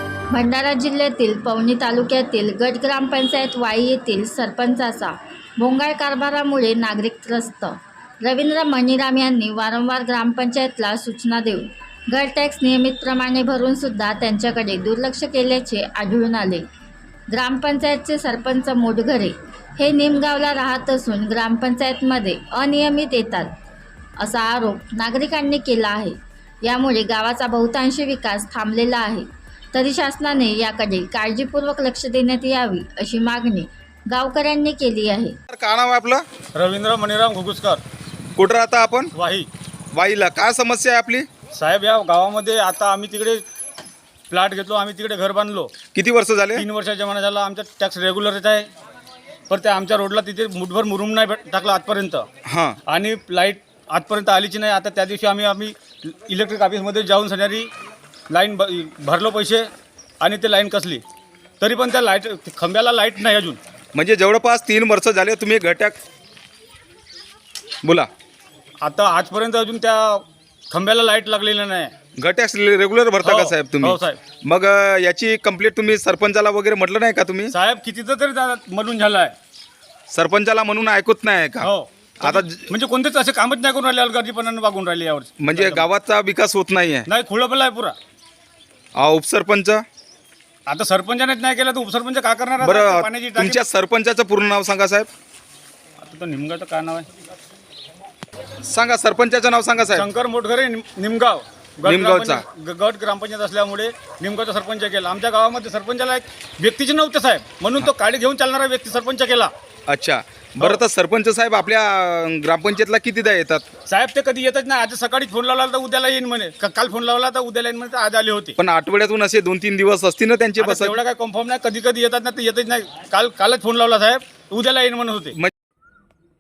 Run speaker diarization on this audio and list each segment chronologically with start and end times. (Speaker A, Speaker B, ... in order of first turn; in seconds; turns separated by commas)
Speaker A: 0.3-16.6, Speaker A: 17.3-23.5, Speaker A: 24.2-35.4, Speaker B: 35.5-36.2, Speaker C: 36.5-37.8, Speaker B: 38.4-39.1, Speaker C: 39.1-39.5, Speaker B: 39.9-41.3, Speaker C: 41.5-43.4, Speaker C: 44.3-45.7, Speaker B: 45.9-46.6, Speaker C: 46.5-48.7, Speaker C: 49.5-52.2, Speaker B: 52.5-52.8, Speaker C: 52.9-57.7, Speaker C: 58.3-59.7, Speaker C: 60.2-61.0, Speaker C: 61.6-63.6, Speaker B: 63.9-66.0, Speaker B: 67.8-68.1, Speaker C: 68.8-71.9, Speaker B: 72.2-77.5, Speaker C: 73.2-74.2, Speaker C: 77.5-79.3, Speaker B: 80.1-81.7, Speaker C: 81.6-85.8, Speaker B: 82.2-82.7, Speaker B: 85.4-87.1, Speaker C: 87.1-87.9, Speaker B: 89.0-89.8, Speaker C: 90.7-93.6, Speaker B: 92.6-95.1, Speaker C: 96.0-97.1, Speaker B: 98.6-100.0, Speaker C: 99.9-109.5, Speaker B: 101.8-102.4, Speaker B: 109.9-113.6, Speaker C: 113.9-118.5, Speaker B: 118.6-121.0, Speaker C: 120.6-125.3